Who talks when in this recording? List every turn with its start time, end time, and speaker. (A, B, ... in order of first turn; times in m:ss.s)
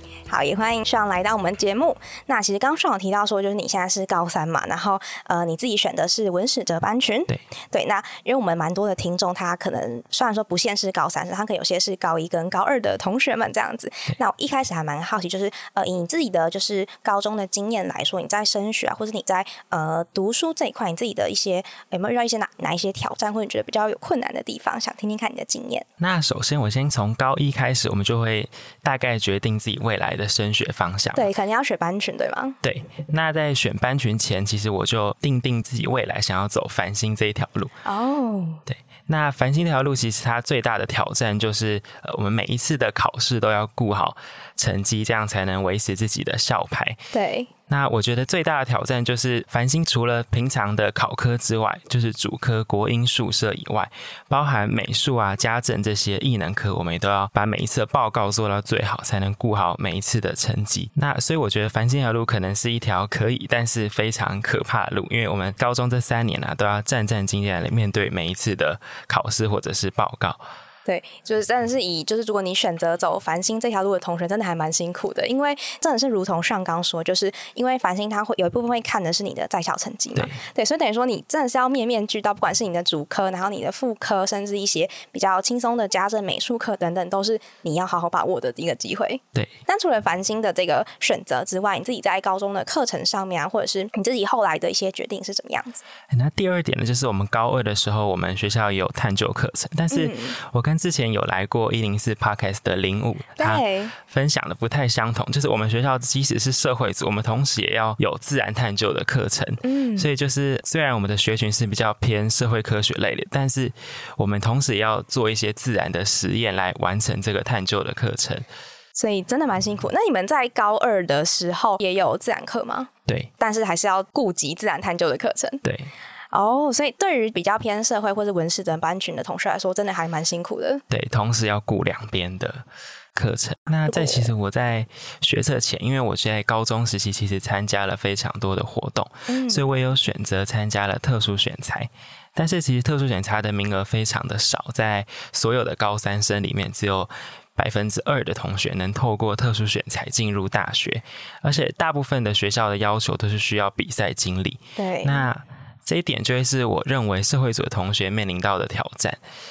0:00.3-0:25.8 A
0:26.0-0:31.3 B
0:31.1-0:32.6 A
0:32.6-0:37.7 B
0:37.8-0:38.6 A
0:38.7-0:47.0 B
0:47.1-0:47.5 A
0:47.7-1:10.4 B
1:10.8-1:35.8 A
1:36.1-1:58.4 B
1:39.9-1:40.3 A
1:43.4-1:43.9 A
1:49.6-1:50.1 A
1:59.0-2:05.6 A
2:05.6-2:05.9 B
2:06.3-2:10.8 A
2:10.9-2:12.6 B
2:13.2-2:39.2 B
2:13.9-2:14.3 A
2:19.3-2:19.6 A
2:34.8-2:35.2 A